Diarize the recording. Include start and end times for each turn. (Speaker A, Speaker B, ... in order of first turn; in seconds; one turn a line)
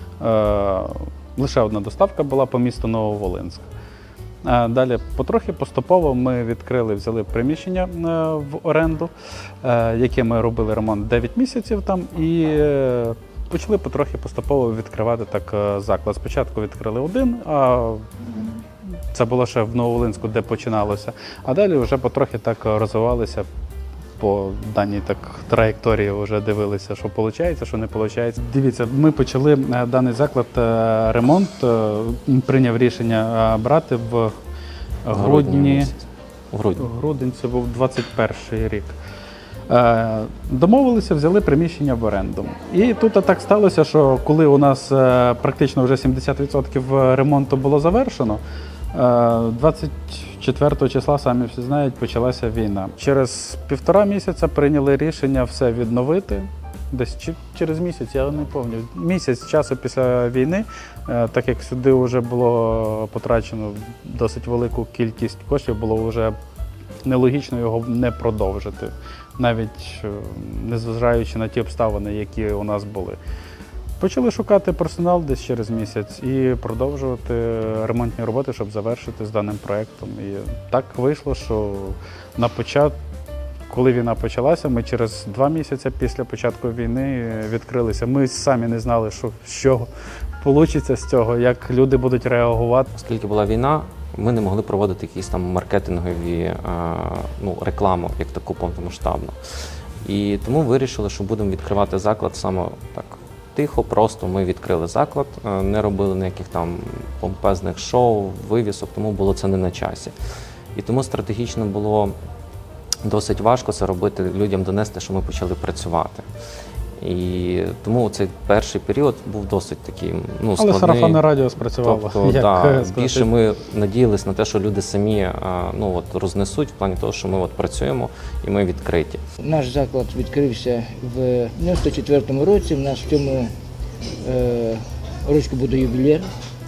Speaker A: 0.2-3.7
Speaker A: 4.4-9.1
Speaker A: 9.6-18.1
Speaker A: 19.1-23.5
Speaker A: 24.2-34.4
Speaker A: 35.0-35.9
Speaker B: 35.1-36.9
Speaker A: 36.8-39.0
Speaker A: 39.7-48.4
Speaker A: 48.9-66.4
Speaker A: 67.0-73.2
Speaker A: 74.0-83.0
Speaker A: 83.7-89.9
Speaker A: 90.4-92.9
Speaker B: 93.0-99.4
Speaker B: 100.0-110.1
Speaker B: 110.8-112.2
Speaker B: 113.0-116.3
Speaker B: 117.0-121.2
Speaker A: 120.6-123.3
Speaker B: 121.8-129.2
Speaker C: 129.4-133.5
Speaker C: 134.2-136.3